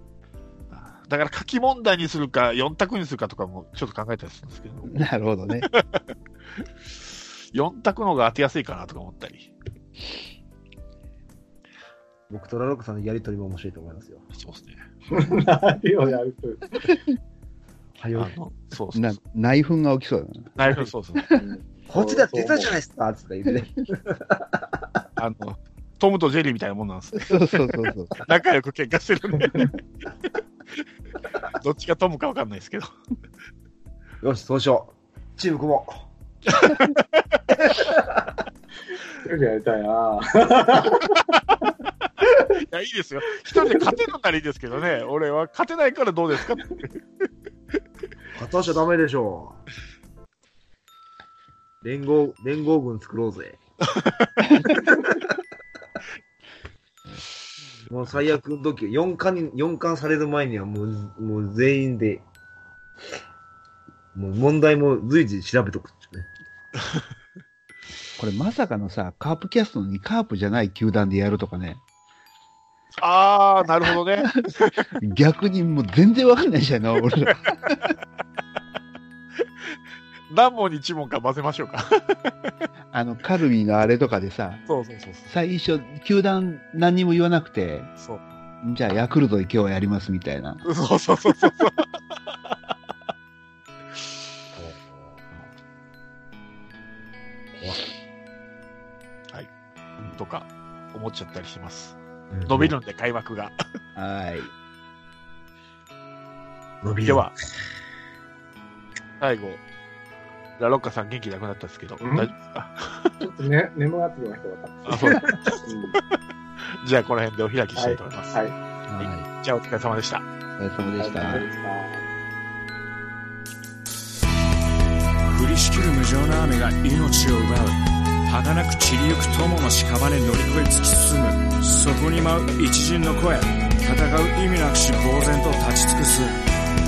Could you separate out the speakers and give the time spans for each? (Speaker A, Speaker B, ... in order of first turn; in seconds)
Speaker A: 0.7-5.0, 5.6-6.0, 7.0-9.5, 14.3-14.8, 18.1-19.2, 20.6-21.3, 25.2-29.7, 31.5-32.9, 36.5-37.6, 41.0-41.6, 42.2-47.0, 53.9-54.8, 73.0-74.8, 79.4-79.7, 80.3-82.5, 84.7-85.3, 90.6-91.9, 100.1-103.5, 107.0-107.3, 109.2-109.6, 110.6-113.1, 114.9-116.0, 116.6-118.4, 119.0-120.2
Speaker B: 4.9-5.7, 18.9-20.6, 27.1-28.2, 68.2-71.8, 74.9-77.9, 82.9-84.6, 85.3-87.9, 88.6-90.6, 104.0-104.5, 118.9-119.3, 120.6-121.5
Speaker C: 12.3-14.2, 18.0-18.3, 21.9-24.6, 34.2-36.0, 37.7-38.1, 48.3-49.6, 51.8-53.6, 57.9-62.2, 64.1-66.3, 94.6-94.9, 97.6-97.8, 102.3-102.7, 106.8-107.3
Speaker D: 15.1-16.9, 21.3-22.7, 39.2-41.2, 112.0-112.3, 113.2-116.0, 117.8-118.5, 121.0-122.0
Speaker E: 125.3-136.4